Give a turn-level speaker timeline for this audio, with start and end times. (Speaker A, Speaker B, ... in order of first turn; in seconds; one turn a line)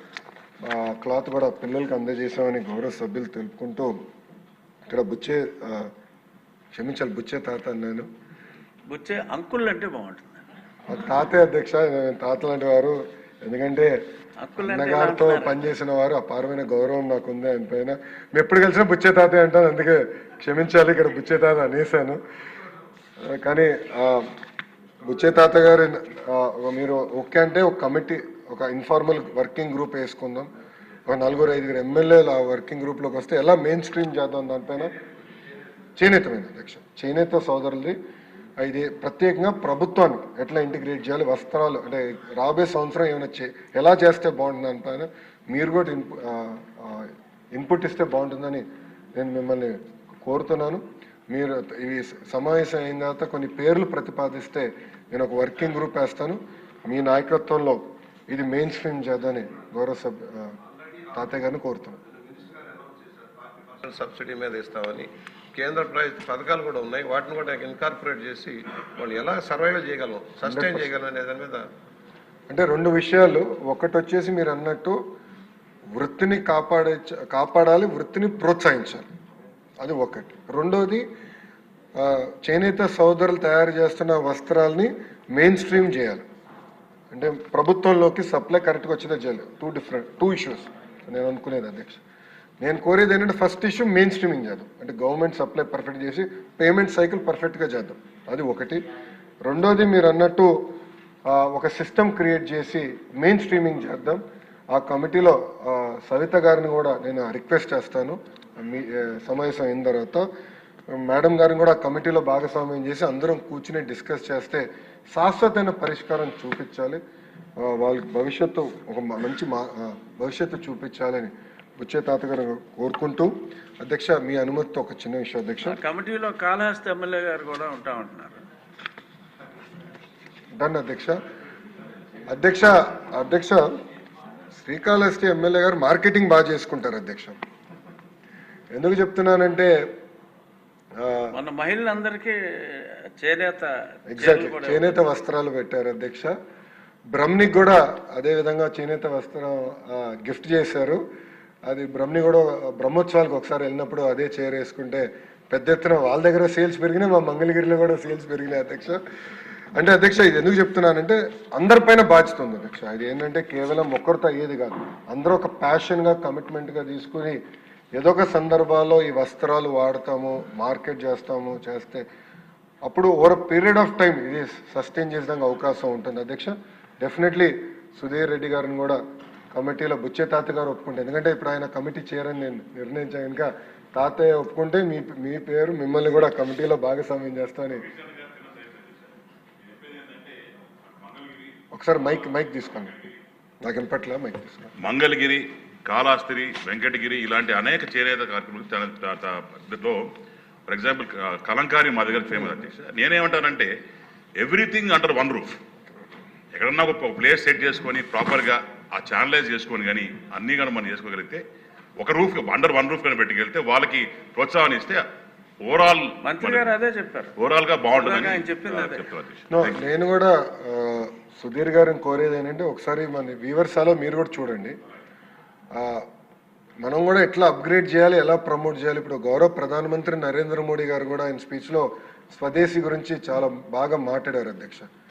Speaker A: 0.7-3.9
Speaker A: 4.9-5.9
Speaker A: 6.7-8.1
Speaker B: 8.9-10.4
Speaker A: 10.9-13.9
Speaker B: 14.4-15.6
Speaker A: 14.6-22.2
Speaker A: 23.3-24.3
Speaker A: 25.1-30.5
Speaker A: 31.1-34.9
Speaker A: 36.0-38.0
Speaker A: 38.6-60.5
Speaker A: 61.1-62.0
Speaker C: 62.2-71.7
Speaker A: 70.5-70.9
Speaker A: 72.5-75.0
Speaker A: 76.0-79.1
Speaker A: 79.8-81.1
Speaker A: 82.0-86.2
Speaker A: 87.1-92.0
Speaker A: 92.6-98.8
Speaker A: 99.5-100.6
Speaker A: 101.3-104.2
Speaker A: 104.7-110.3
Speaker A: 110.9-117.0
Speaker A: 117.6-125.8
Speaker B: 125.7-128.4
Speaker A: 130.6-131.2
Speaker A: 132.3-133.7
Speaker A: 134.5-137.4
Speaker A: 138.7-139.8
Speaker A: 141.0-141.3
Speaker B: 141.3-145.0
Speaker A: 144.1-146.3
Speaker A: 147.1-151.0
Speaker A: 151.7-159.0
Speaker A: 159.8-167.4
Speaker A: 168.0-172.1
Speaker A: 172.8-179.0
Speaker A: 179.5-187.9
Speaker D: 188.0-188.9
Speaker D: 189.7-190.4
Speaker D: 191.0-191.5
Speaker A: 191.7-193.0
Speaker A: 193.6-194.8
Speaker D: 194.8-200.1
Speaker D: 200.7-203.7
Speaker D: 204.4-205.6
Speaker D: 206.5-211.4
Speaker D: 212.0-215.0
Speaker D: 215.6-216.7
Speaker B: 216.2-217.3
Speaker D: 217.4-219.8
Speaker B: 217.9-219.1
Speaker A: 219.5-224.8
Speaker A: 225.8-226.1
Speaker A: 226.8-234.9